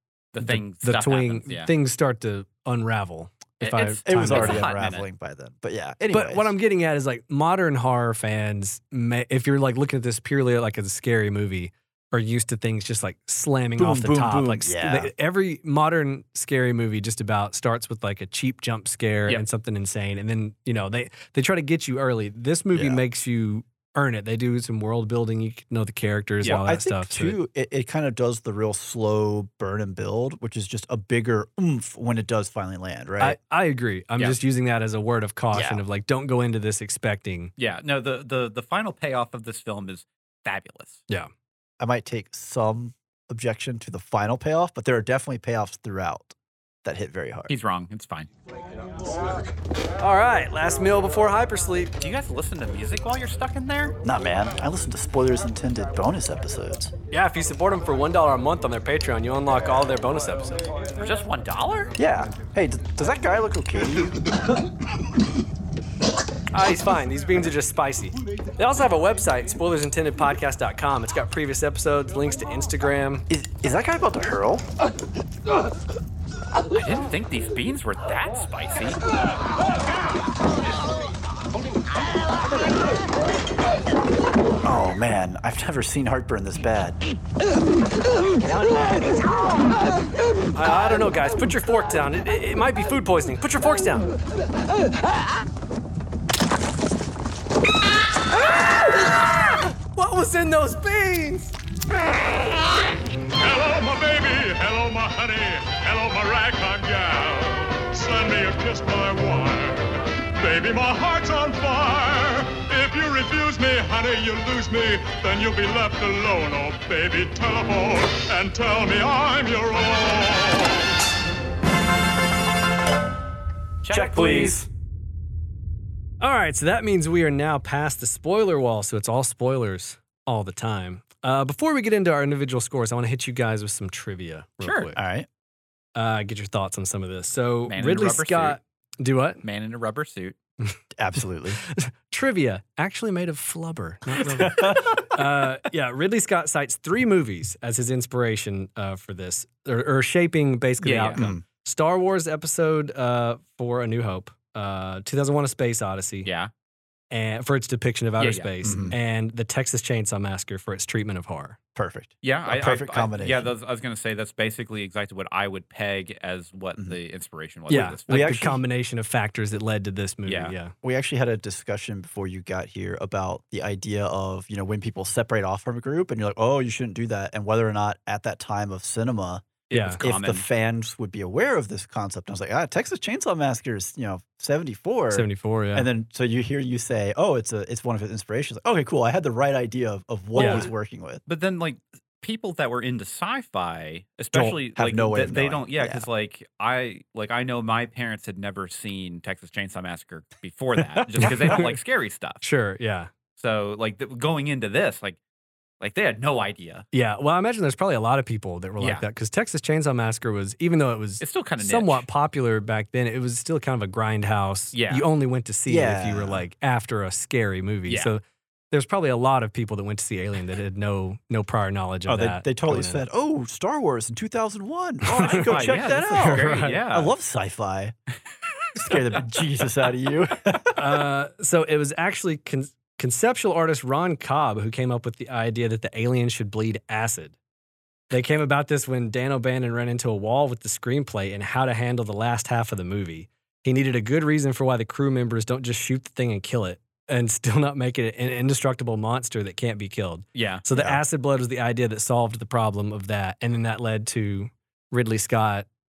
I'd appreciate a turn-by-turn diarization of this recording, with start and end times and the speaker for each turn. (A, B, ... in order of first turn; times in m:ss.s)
0:00.3-0:01.7 A
0:00.4-0:04.7 B
0:03.6-0:05.0 A
0:04.1-0:06.5 C
0:06.1-0:27.4 B
0:13.8-0:15.1 C
0:22.8-0:23.0 C
0:26.6-0:33.4 C
0:33.2-0:37.5 B
0:35.5-0:35.8 C
0:37.6-0:41.0 A
0:41.8-0:47.5 C
0:47.5-0:48.3 A
0:50.0-0:51.9 B
0:52.0-0:54.0 A
0:54.0-0:56.9 C
0:57.1-1:00.6 B
1:01.0-1:01.9 A
1:02.0-1:04.3 C
1:06.5-1:13.3 B
1:13.3-1:14.7 C
1:16.7-1:19.0 A
1:24.6-1:27.0 C
1:28.4-1:29.0 B
1:30.5-1:34.1 B
1:39.5-1:41.5 B
1:43.4-2:00.9 D
2:03.8-2:04.6 A
2:03.9-2:04.7 C
2:06.2-2:15.0 B
2:14.6-2:14.9 A
2:15.0-2:15.3 C
2:16.0-2:19.4 B
2:17.7-2:18.6 A
2:19.4-2:20.4 A
2:21.0-2:21.6 C
2:21.6-2:36.3 B
2:24.2-2:25.1 C
2:30.8-2:31.3 A
2:31.2-2:31.4 C
2:36.2-2:36.5 A
2:37.1-2:41.6 B
2:38.2-2:38.8 A
2:38.6-2:39.0 C
2:41.8-2:43.5 C
2:42.2-2:48.5 A
2:47.7-2:50.7 B
2:48.1-2:48.6 C
2:50.3-2:50.5 A
2:50.8-3:11.2 C
2:59.7-3:00.4 A
2:59.7-3:00.0 B
3:05.1-3:05.9 B
3:10.4-3:10.7 A
3:10.4-3:10.7 B
3:11.3-3:22.4 A
3:14.3-3:16.1 C
3:20.8-3:21.7 C
3:21.2-3:21.7 B
3:22.4-3:23.1 B
3:23.4-3:25.2 A
3:25.8-3:26.8 A
3:26.9-3:43.0 B
3:28.8-3:29.0 A
3:31.2-3:32.0 A
3:34.7-3:35.1 A
3:35.7-3:36.4 C
3:42.1-3:48.0 C
3:45.1-3:46.8 B
3:45.2-3:47.1 A
3:48.8-3:51.0 C
3:48.9-3:49.2 A
3:50.8-3:57.4 B
3:58.1-4:15.7 B
4:10.4-4:10.6 A
4:10.7-4:11.0 C